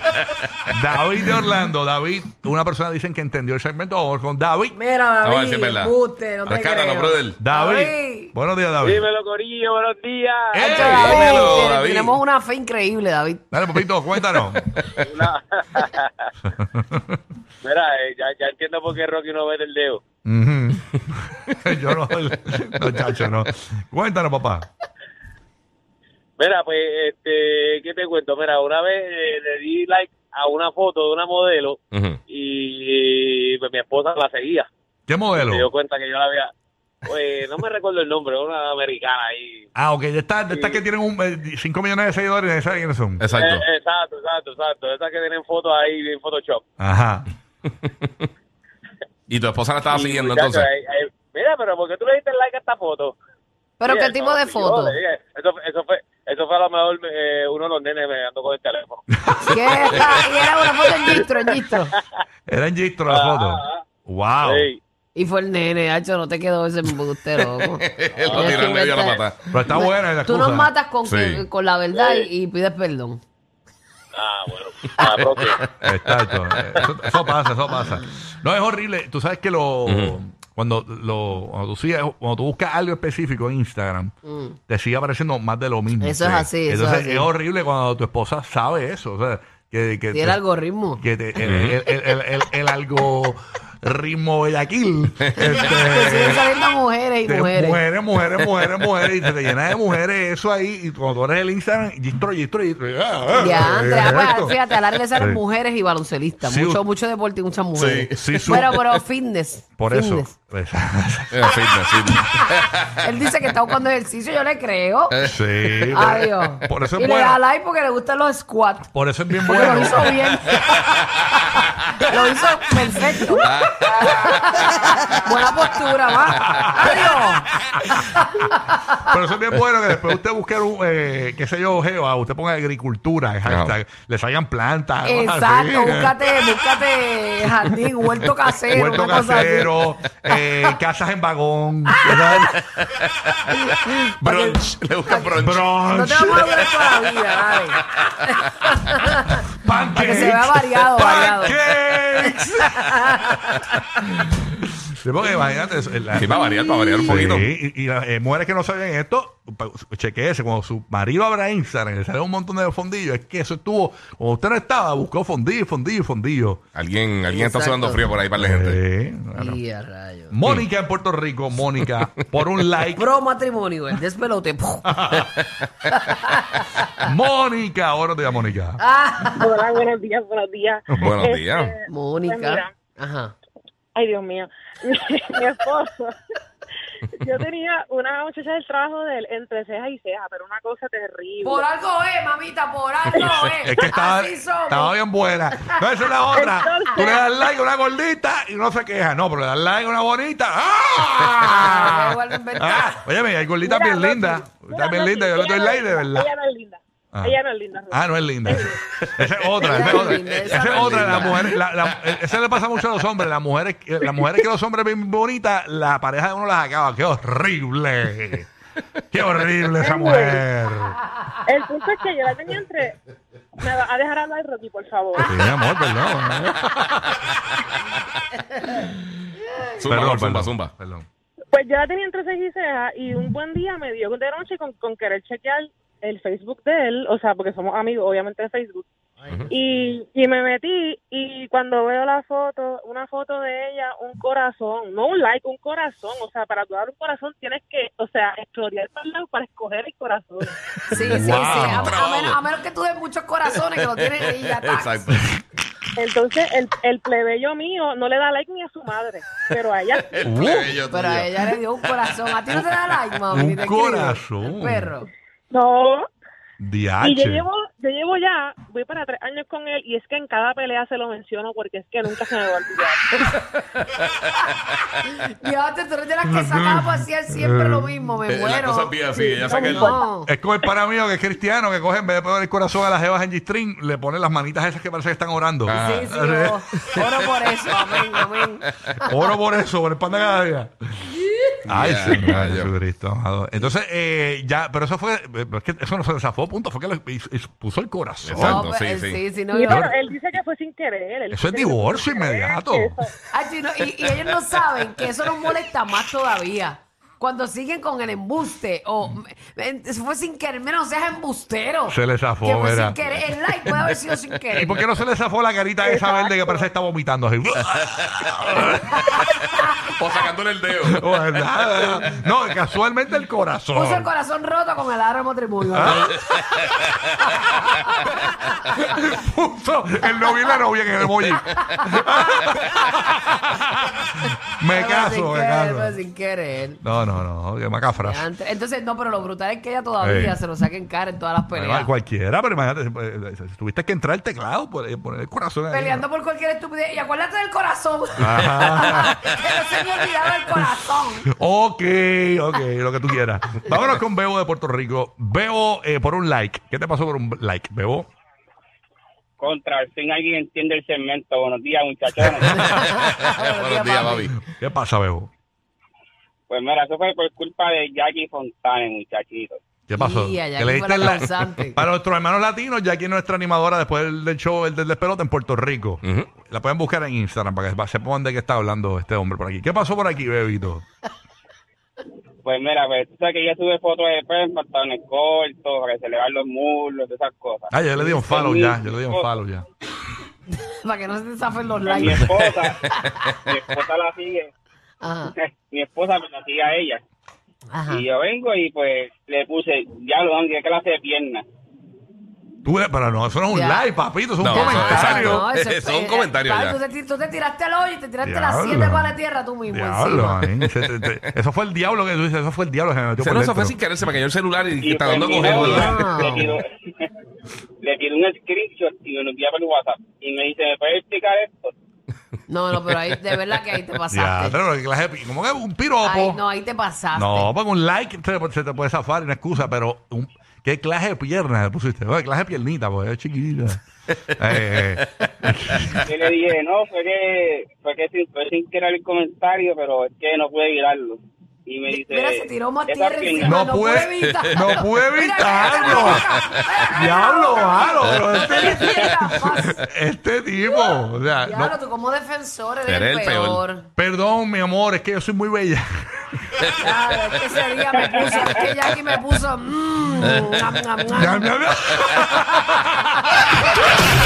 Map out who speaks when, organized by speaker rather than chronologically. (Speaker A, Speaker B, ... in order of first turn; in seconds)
Speaker A: 0.7-4.8, 7.4-9.0, 10.5-11.5, 13.5-14.7, 16.6-17.2, 20.2-24.7, 35.1-35.7, 39.8-43.2, 46.8-47.3, 62.5-64.7, 69.5-70.7, 75.8-84.1, 84.7-90.4, 91.0-96.5, 97.2-104.6, 105.2-105.4, 106.4-106.8, 108.2-108.8, 109.8-111.5, 115.2-117.4, 118.9-120.4, 126.3-128.0, 129.0-136.2, 138.7-142.6, 145.4-146.8, 149.5-152.9, 154.9-156.4, 157.0-166.6, 168.4-169.6, 170.3-173.1, 174.9-175.3, 177.0-178.8, 193.6-206.3, 207.9-218.5, 219.1-221.0, 225.2-227.2, 229.8-231.1, 250.9-252.0, 260.2-260.8, 263.3-264.9, 266.6-267.5, 276.3-276.9, 277.4-277.9, 280.3-287.2, 289.1-291.1, 291.7-298.7, 299.7-299.9, 301.3-303.0, 311.9-313.9, 314.5-319.7, 320.9-324.1, 325.7-326.4, 328.6-334.1, 334.6-336.0, 336.8-338.3, 340.0-340.4, 341.5-346.0, 348.2-349.4, 350.6-358.1, 364.2-365.3, 369.9-380.8, 387.7-389.6, 402.6-405.5, 408.2-409.2, 409.7-413.8, 424.1-426.4, 427.1-433.8, 434.4-436.0, 443.4-446.3, 446.9-451.8, 454.0-456.4, 461.1-463.3
Speaker B: 4.7-8.3, 10.7-13.5, 53.8-54.9, 59.4-61.9, 65.2-73.2, 84.3-84.6, 86.0-87.3, 90.1-91.0, 95.6-97.8, 103.3-110.3, 113.0-115.2, 115.9-127.5, 128.1-129.0, 135.0-139.8, 140.4-140.8, 141.9-142.6, 143.5-153.8, 156.4-157.1, 167.3-168.1, 169.3-170.4, 172.9-175.3, 175.9-177.1, 178.8-179.5, 181.9-183.3, 191.4-195.0, 201.4-203.0, 209.6-211.5, 250.9-255.2, 260.9-265.1, 275.1-280.3, 285.7-289.1, 298.4-299.9, 303.3-314.8, 323.7-326.1, 327.4-328.1, 331.5-331.8, 332.4-332.9, 334.7-336.8, 338.0-341.9, 345.7-351.3, 362.7-364.3, 370.0-371.8, 390.8-392.4, 395.0-395.3, 397.7-398.0, 403.5-403.9, 404.5-410.4, 415.5-416.6, 422.5-424.6, 426.0-427.5, 441.9-449.8, 450.7-453.9, 456.8-461.6
Speaker C: 5.2-6.0, 6.5-7.4, 10.9-12.2, 14.5-14.9, 31.9-32.2, 43.2-43.6, 49.3-50.7, 67.6-69.5, 71.0-71.4, 79.9-80.2, 91.4-91.8, 107.8-109.0, 111.3-112.9, 115.1-115.8, 133.4-133.8, 142.8-143.4, 144.2-145.7, 156.2-157.5, 166.8-168.8, 181.0-181.7, 210.8-211.3, 229.8-230.7, 251.8-252.4, 253.7-255.2, 259.9-261.4, 278.3-279.9, 285.7-286.1, 291.7-292.7, 298.2-299.2, 320.0-322.1, 362.6-364.3, 376.0-376.3, 404.4-406.8, 410.7-411.2, 413.2-415.9, 452.9-453.6
Speaker D: 8.8-11.2, 15.0-16.3, 17.6-20.0, 26.4-34.7, 35.4-36.5, 37.0-39.7, 40.5-40.8, 43.3-46.6, 49.9-53.2, 53.8-60.0, 63.1-63.9, 64.4-64.8, 68.2-68.5, 74.1-75.6
Speaker E: 179.3-182.7, 183.9-186.2, 187.1-191.7, 193.2-193.9, 196.3-197.5, 203.6-208.8, 219.8-220.4, 221.4-223.0, 223.6-225.4, 231.5-238.9, 239.5-250.5, 256.0-260.5, 265.5-266.1, 267.0-273.1, 279.7-280.0, 299.5-303.1, 315.8-316.7
Speaker F: 359.4-362.7, 366.5-369.6, 382.4-389.3, 391.8-392.8, 393.4-394.5, 395.4-397.0, 397.9-401.4, 414.8-417.1, 417.8-421.7, 436.1-443.9, 458.1-458.5